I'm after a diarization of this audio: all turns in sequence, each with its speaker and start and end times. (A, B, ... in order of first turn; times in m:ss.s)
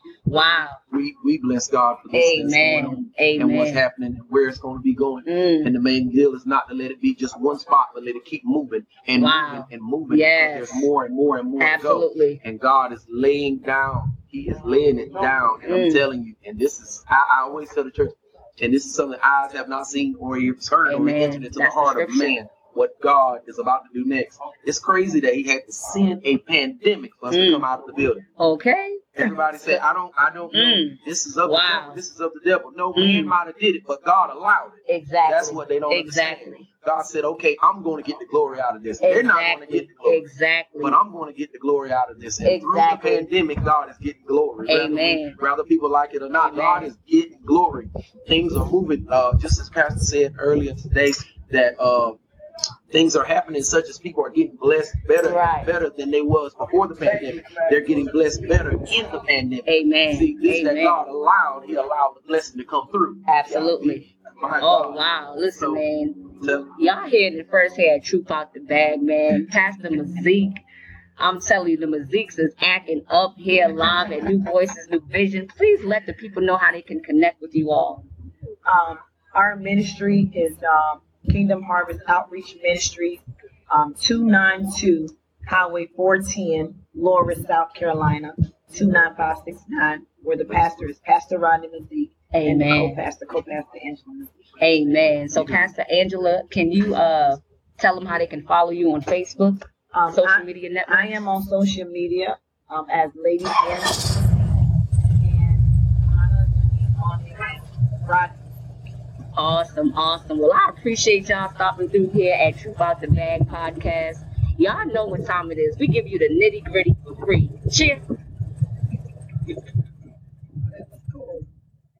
0:00.2-0:00.8 A
0:00.9-0:28.2 B
0:02.1-0:03.8 A
0:05.2-0:05.7 A
0:09.2-0:10.9 A
0:11.6-0:12.4 A
0:15.6-0:16.0 A
0:20.8-0:22.4 A
0:27.3-0:27.6 A
0:28.4-0:29.8 A
0:29.2-0:40.2 B
0:30.5-0:32.0 A
0:32.9-0:33.4 A
0:34.8-0:36.6 A
0:39.0-0:41.0 A
0:40.8-0:52.2 B
0:42.4-0:43.3 A
0:44.6-0:45.4 A
0:46.4-0:46.9 A
0:52.9-1:05.8 B
0:55.2-0:55.7 A
0:59.6-1:01.0 A
1:03.2-1:04.1 A
1:04.6-1:10.6 A
1:06.4-1:06.7 B
1:11.2-1:18.0 A
1:18.6-1:34.3 C
1:32.3-1:33.0 A
1:34.6-1:41.2 A
1:39.9-1:44.6 C
1:45.2-1:48.5 C
1:49.3-1:58.0 A
2:01.1-2:01.4 C